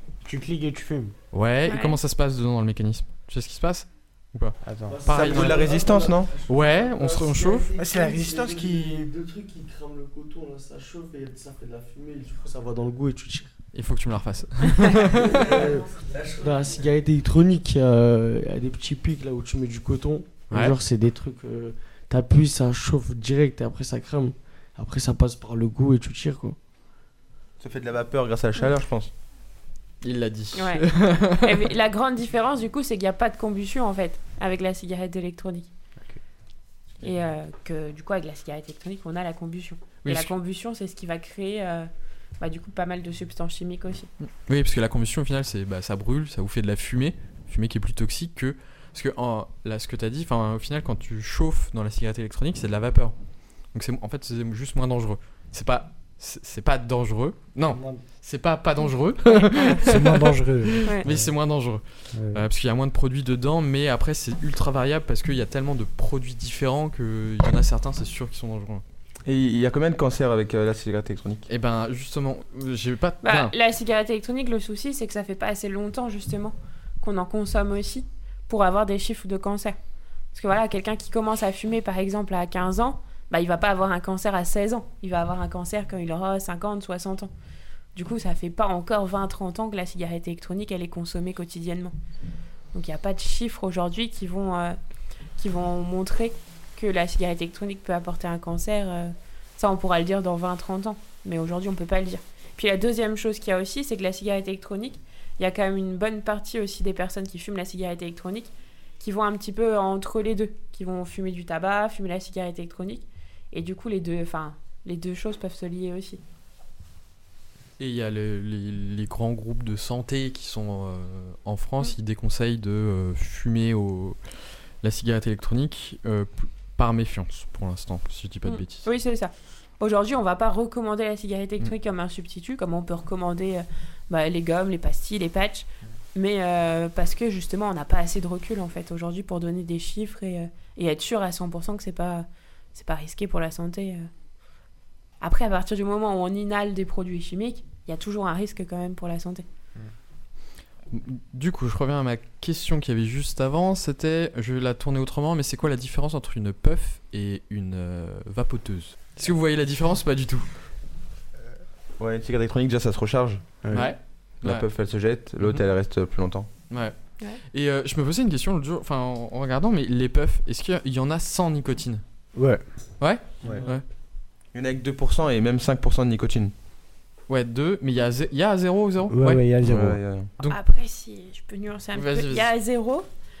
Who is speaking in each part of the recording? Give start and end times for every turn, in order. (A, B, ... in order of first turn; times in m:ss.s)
0:00.2-0:01.1 A
0:01.3-0:05.6 B
0:01.6-0:02.0 C
0:04.6-0:05.2 A
0:04.9-0:13.5 D
0:05.1-0:06.4 E
0:06.5-0:07.7 B
0:07.8-0:09.1 A
0:13.7-0:15.6 B
0:15.1-0:26.6 D
0:20.5-0:20.8 B
0:27.6-0:29.1 E
0:30.0-0:31.7 B
0:30.5-0:35.7 C
0:37.0-0:44.1 C
0:40.0-0:40.3 B
0:44.4-0:53.1 B
0:53.7-1:08.8 B
0:57.7-0:58.0 A
0:59.7-1:01.3 A
1:02.1-1:02.4 A
1:09.2-1:11.5 E
1:11.5-1:13.5 B
1:13.2-1:19.8 C
1:20.3-1:27.3 C
1:27.9-1:31.9 C
1:32.7-1:34.8 C
1:35.4-1:56.2 C
1:57.8-2:04.2 B
2:04.8-2:08.9 B
2:08.4-2:24.1 C
2:25.2-2:29.4 C
2:30.9-2:40.5 B
2:42.0-2:43.6 E
2:43.6-2:43.9 A
2:43.7-2:44.7 B
2:44.4-2:46.5 E
2:46.7-2:52.0 B
2:52.3-2:52.6 A
2:53.0-2:53.8 B
2:54.5-2:56.5 E
2:57.3-2:59.4 B
2:59.1-3:00.0 A
2:59.6-3:00.3 E
3:00.4-3:03.0 C
3:01.9-3:02.5 B